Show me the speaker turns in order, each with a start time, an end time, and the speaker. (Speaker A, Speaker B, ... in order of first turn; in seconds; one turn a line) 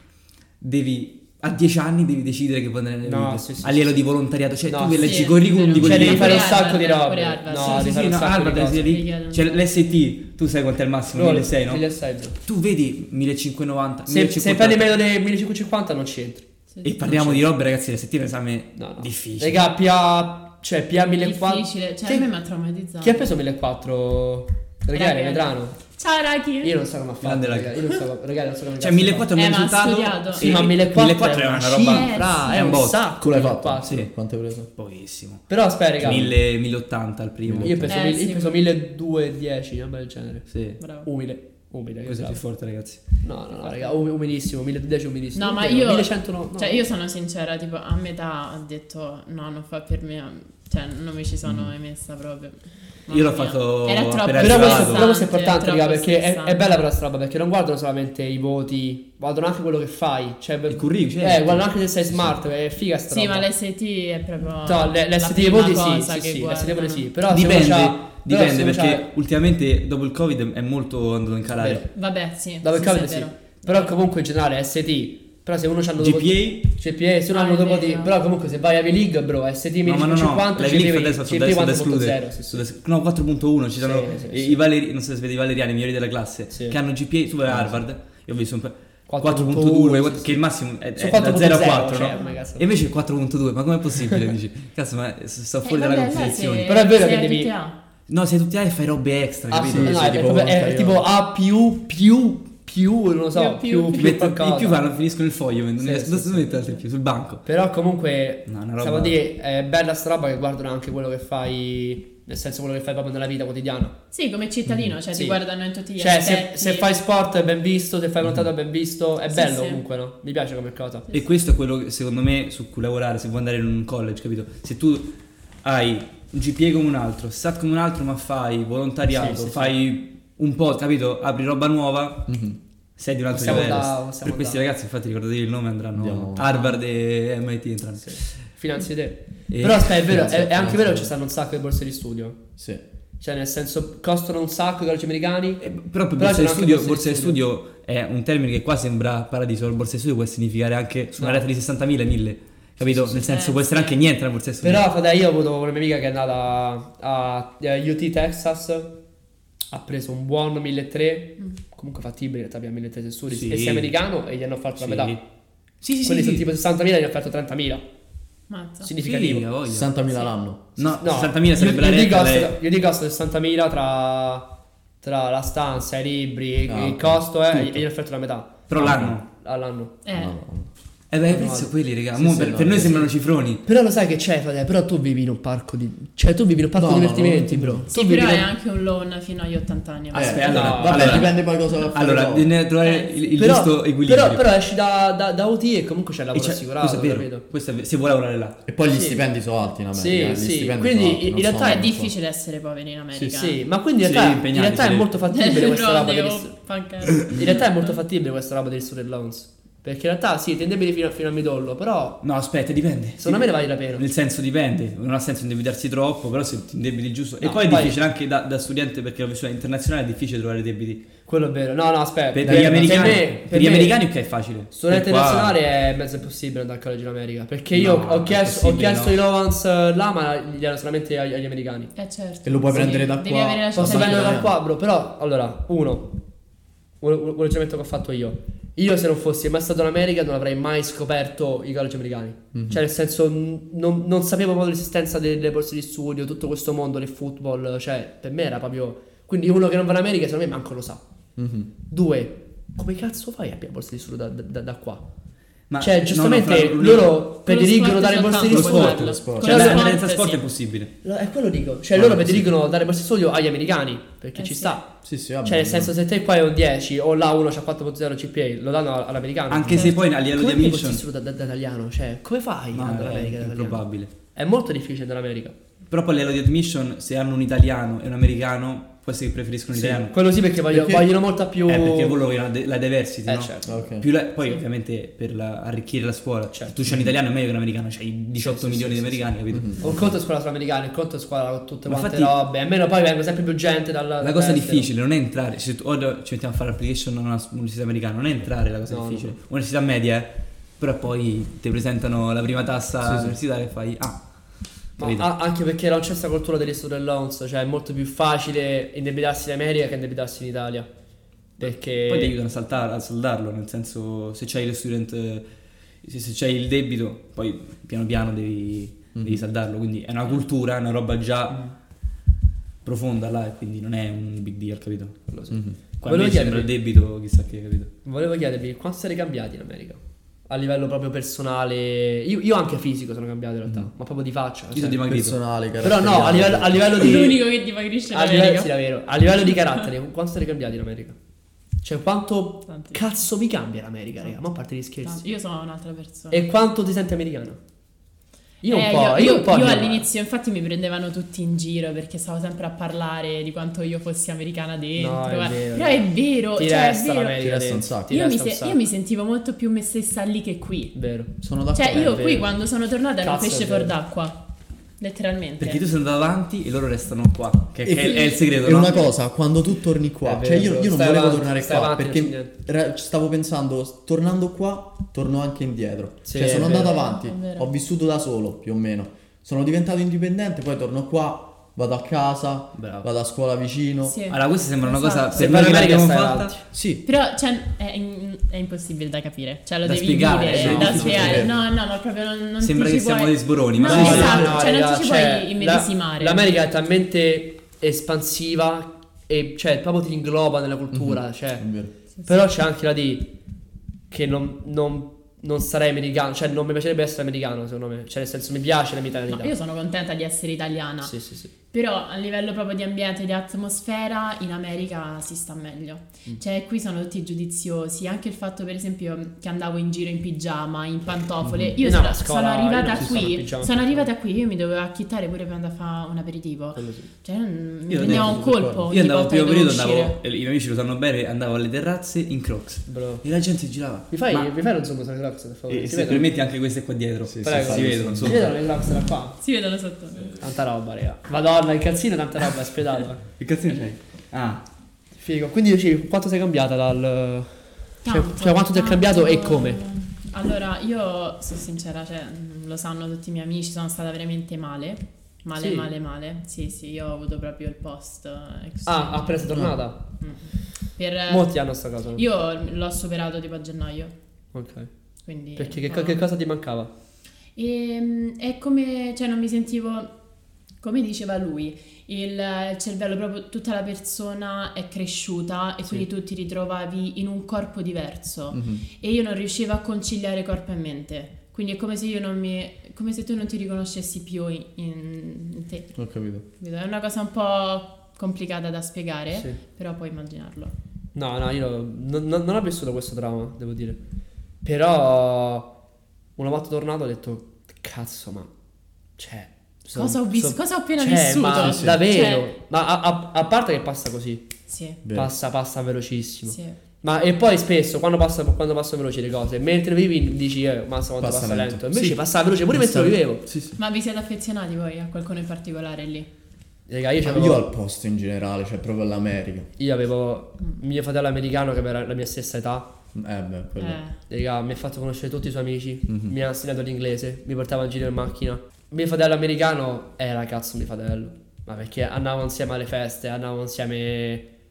Speaker A: 0.6-6.6
Speaker B: 3.0-4.0
Speaker B: 4.7-8.9
Speaker C: 5.0-8.2
Speaker A: 7.5-11.9
Speaker C: 8.8-9.6
Speaker B: 11.1-12.3
Speaker A: 12.4-15.0
Speaker B: 14.1-16.5
Speaker A: 16.8-19.6
Speaker B: 17.0-17.4
Speaker B: 18.8-22.3
Speaker C: 21.2-23.4
Speaker B: 23.0-25.8
Speaker C: 24.9-26.7
Speaker B: 26.6-29.3
Speaker A: 27.2-27.9
Speaker A: 28.8-33.0
Speaker C: 29.4-30.7
Speaker B: 30.4-33.9
Speaker C: 31.9-32.8
Speaker D: 33.2-34.7
Speaker A: 33.8-34.1
Speaker A: 34.8-37.9
Speaker B: 35.5-36.3
Speaker D: 36.0-36.3
Speaker D: 37.5-37.9
Speaker B: 37.6-42.4
Speaker C: 37.9-38.6
Speaker A: 40.5-40.8
Speaker C: 40.8-41.1
Speaker A: 42.0-43.2
Speaker B: 43.2-46.9
Speaker C: 45.4-56.6
Speaker A: 53.1-55.1
Speaker B: 54.4-63.5
Speaker A: 60.7-62.3
Speaker C: 63.1-67.1
Speaker B: 64.6-69.1
Speaker A: 67.3-71.9
Speaker B: 71.6-71.9
Speaker C: 71.9-73.4
Speaker B: 72.6-82.6
Speaker A: 76.0-76.7
Speaker C: 77.3-78.1
Speaker A: 79.8-96.8
Speaker B: 83.8-84.6
Speaker B: 86.5-86.8
Speaker B: 89.1-90.4
Speaker B: 91.0-92.7
Speaker C: 92.1-92.4
Speaker C: 95.6-97.8
Speaker B: 96.6-97.5
Speaker A: 98.1-100.2
Speaker B: 99.5-104.8
Speaker D: 99.6-101.0
Speaker C: 103.3-104.1
Speaker A: 104.0-107.5
Speaker B: 105.8-106.6
Speaker B: 107.5-114.0
Speaker A: 108.5-109.2
Speaker C: 114.1-117.0
Speaker B: 115.1-115.4
Speaker B: 116.0-121.1
Speaker C: 119.3-119.8
Speaker A: 121.1-125.1
Speaker A: 125.6-132.4
Speaker B: 129.1-129.8
Speaker D: 132.3-132.6
Speaker A: 133.0-138.4
Speaker B: 133.3-134.6
Speaker D: 133.5-133.7
Speaker D: 136.0-136.7
Speaker B: 138.0-142.4
Speaker A: 139.5-140.1
Speaker D: 140.1-141.1
Speaker B: 143.2-145.6
Speaker A: 145.6-154.8
Speaker B: 146.2-147.4
Speaker B: 151.2-151.4
Speaker B: 152.8-153.2
Speaker C: 153.2-154.0
Speaker B: 154.6-158.9
Speaker B: 159.7-165.2
Speaker A: 163.3-163.9
Speaker A: 164.8-165.2
Speaker A: 165.8-166.5
Speaker B: 166.0-167.8
Speaker C: 168.5-168.9
Speaker B: 168.8-169.5
Speaker A: 169.0-169.9
Speaker D: 169.7-170.8
Speaker A: 170.8-172.5
Speaker B: 171.0-174.5
Speaker B: 175.0-178.7
Speaker D: 176.7-177.8
Speaker A: 178.7-179.2
Speaker D: 178.8-179.2
Speaker B: 179.3-179.9
Speaker C: 180.0-180.4
Speaker D: 180.1-180.7
Speaker A: 181.1-183.6
Speaker B: 181.3-181.7
Speaker D: 182.1-183.1
Speaker B: 183.6-188.5
Speaker D: 186.8-187.9
Speaker C: 187.9-190.8
Speaker D: 190.1-192.5
Speaker A: 190.1-194.5
Speaker B: 190.4-191.3
Speaker C: 192.8-193.4
Speaker B: 193.4-197.4
Speaker A: 196.3-198.6
Speaker D: 198.6-202.1
Speaker B: 198.9-199.2
Speaker B: 199.9-201.9
Speaker C: 201.6-203.6
Speaker B: 203.3-206.6
Speaker A: 204.0-205.2
Speaker C: 205.3-208.0
Speaker B: 207.3-212.2
Speaker A: 212.2-221.0
Speaker B: 213.2-214.1
Speaker B: 217.4-218.0
Speaker B: 221.3-224.0
Speaker A: 222.3-225.6
Speaker D: 222.4-223.3
Speaker B: 224.7-231.9
Speaker A: 227.7-229.1
Speaker C: 231.9-234.4
Speaker D: 232.4-234.6
Speaker B: 233.8-236.1
Speaker B: 237.0-251.0
Speaker D: 242.5-242.8
Speaker D: 251.4-251.7
Speaker B: 251.9-255.1
Speaker A: 255.7-257.2
Speaker B: 255.8-259.9
Speaker C: 257.4-260.4
Speaker A: 258.4-260.9
Speaker D: 259.1-259.6
Speaker B: 261.0-275.6
Speaker D: 262.0-262.4
Speaker C: 264.4-264.8
Speaker D: 265.0-265.9
Speaker A: 269.5-271.0
Speaker C: 269.7-270.0
Speaker A: 272.7-274.1
Speaker A: 275.9-280.1
Speaker B: 279.7-282.2
Speaker D: 280.7-281.1
Speaker A: 281.7-289.9
Speaker B: 283.3-283.9
Speaker D: 283.7-284.1
Speaker B: 288.4-294.9
Speaker D: 289.5-290.1
Speaker A: 291.9-292.4
Speaker A: 294.2-304.2
Speaker B: 298.9-299.3
Speaker D: 303.0-303.4
Speaker A: 305.0-305.3
Speaker B: 305.0-310.9
Speaker B: 311.6-312.4
Speaker A: 311.6-315.5
Speaker A: 316.0-321.6
Speaker D: 319.1-319.4
Speaker A: 322.8-325.3
Speaker B: 325.3-326.7
Speaker D: 325.5-325.8
Speaker A: 326.0-327.9
Speaker B: 328.1-335.0
Speaker A: 334.7-335.4
Speaker D: 335.0-337.0
Speaker B: 335.8-337.5
Speaker C: 336.9-338.7
Speaker B: 338.1-341.2
Speaker B: 341.8-345.2
Speaker C: 342.7-343.0
Speaker C: 345.0-346.4
Speaker B: 346.3-347.6
Speaker B: 348.6-350.1
Speaker C: 348.7-357.4
Speaker B: 355.0-358.8
Speaker D: 357.4-358.2
Speaker C: 358.1-361.0
Speaker B: 360.9-361.3
Speaker D: 361.4-362.4
Speaker C: 361.7-364.4
Speaker B: 361.9-362.5
Speaker B: 363.2-363.9
Speaker C: 365.0-365.8
Speaker A: 365.6-369.1
Speaker D: 367.9-384.2
Speaker C: 368.0-369.1
Speaker B: 370.2-372.5
Speaker B: 376.2-377.0
Speaker C: 376.5-377.7
Speaker C: 384.0-385.8
Speaker A: 384.3-386.6
Speaker B: 385.4-386.6
Speaker D: 386.7-387.0
Speaker C: 387.1-396.4
Speaker A: 389.8-391.5
Speaker D: 390.6-391.5
Speaker B: 390.6-391.4
Speaker A: 392.6-394.6
Speaker B: 393.8-401.7
Speaker D: 400.9-401.9
Speaker B: 402.2-403.3
Speaker B: 404.1-409.5
Speaker C: 409.3-411.1
Speaker B: 411.0-411.5
Speaker C: 411.7-430.2
Speaker D: 421.4-421.7
Speaker B: 421.8-424.1
Speaker B: 426.8-427.1
Speaker A: 427.9-434.5
Speaker D: 428.0-428.9
Speaker B: 432.9-433.2
Speaker B: 434.1-436.3
Speaker A: 435.7-438.5
Speaker D: 437.3-438.6
Speaker B: 437.4-439.4
Speaker C: 439.4-440.4
Speaker B: 440.4-443.2
Speaker A: 443.4-444.6
Speaker B: 445.2-449.8
Speaker C: 448.0-459.7
Speaker B: 455.6-455.9
Speaker B: 458.9-460.0
Speaker C: 460.2-464.1
Speaker B: 461.3-462.2
Speaker B: 464.5-464.9
Speaker C: 465.3-466.2
Speaker B: 465.6-466.9
Speaker C: 467.6-470.1
Speaker C: 470.8-485.9
Speaker D: 478.5-478.8
Speaker D: 485.9-486.4
Speaker C: 486.6-490.7
Speaker B: 491.1-494.0
Speaker B: 494.6-495.7
Speaker B: 496.4-498.5
Speaker B: 499.2-504.5
Speaker C: 499.9-502.5
Speaker D: 501.6-502.0
Speaker C: 504.7-505.0
Speaker D: 505.0-505.3
Speaker B: 505.1-513.5
Speaker C: 506.5-506.8
Speaker D: 511.2-513.8
Speaker C: 513.8-516.3
Speaker B: 516.9-517.6
Speaker D: 517.2-519.7
Speaker B: 519.8-522.9
Speaker D: 523.1-524.0
Speaker C: 523.8-524.2
Speaker B: 524.2-534.5
Speaker D: 526.1-526.3